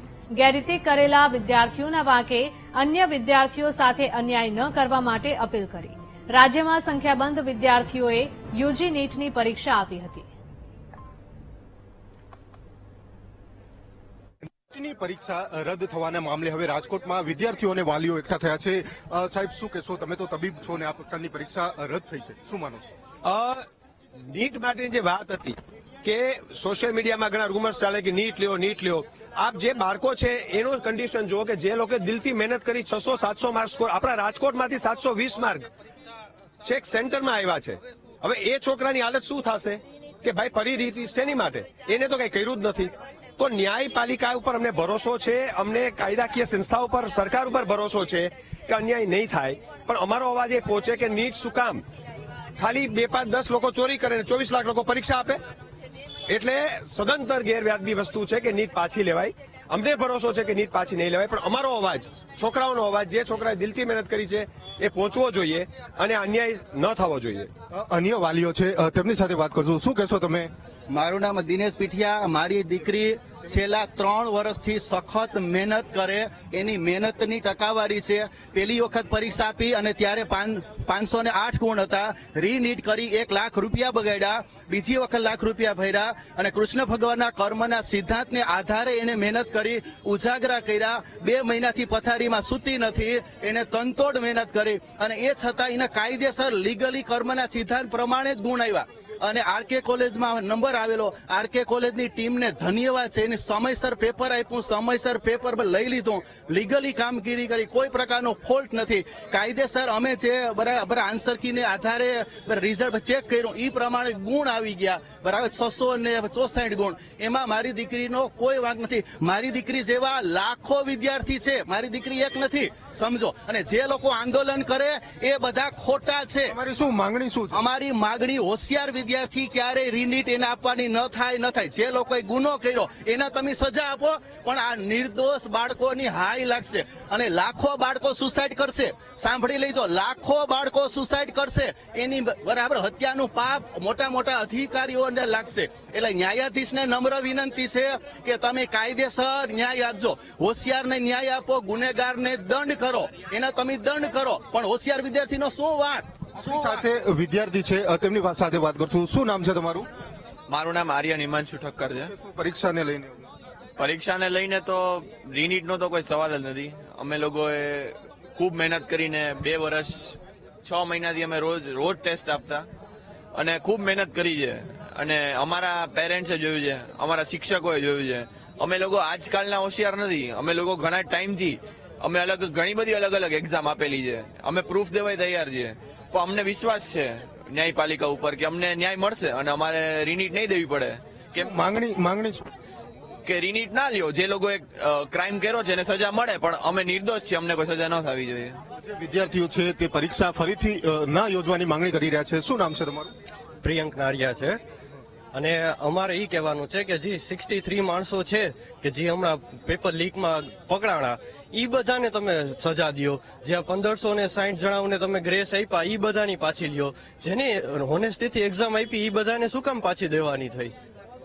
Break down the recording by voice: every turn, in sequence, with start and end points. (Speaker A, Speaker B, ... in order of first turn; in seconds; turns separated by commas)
Speaker A: 0.3-10.3, Speaker B: 14.6-22.8, Speaker C: 23.2-23.6, Speaker C: 24.3-35.7, Speaker C: 36.6-51.9, Speaker C: 52.6-55.4, Speaker C: 56.3-67.5, Speaker B: 67.7-70.5, Speaker D: 70.9-126.5, Speaker B: 126.5-127.6, Speaker D: 127.5-156.8, Speaker B: 156.4-159.9, Speaker E: 160.5-162.1, Speaker B: 162.0-163.3, Speaker E: 163.8-172.7, Speaker E: 173.3-191.5, Speaker B: 191.4-192.5, Speaker E: 193.2-198.6, Speaker B: 198.8-203.1, Speaker F: 203.6-204.6, Speaker F: 205.3-220.7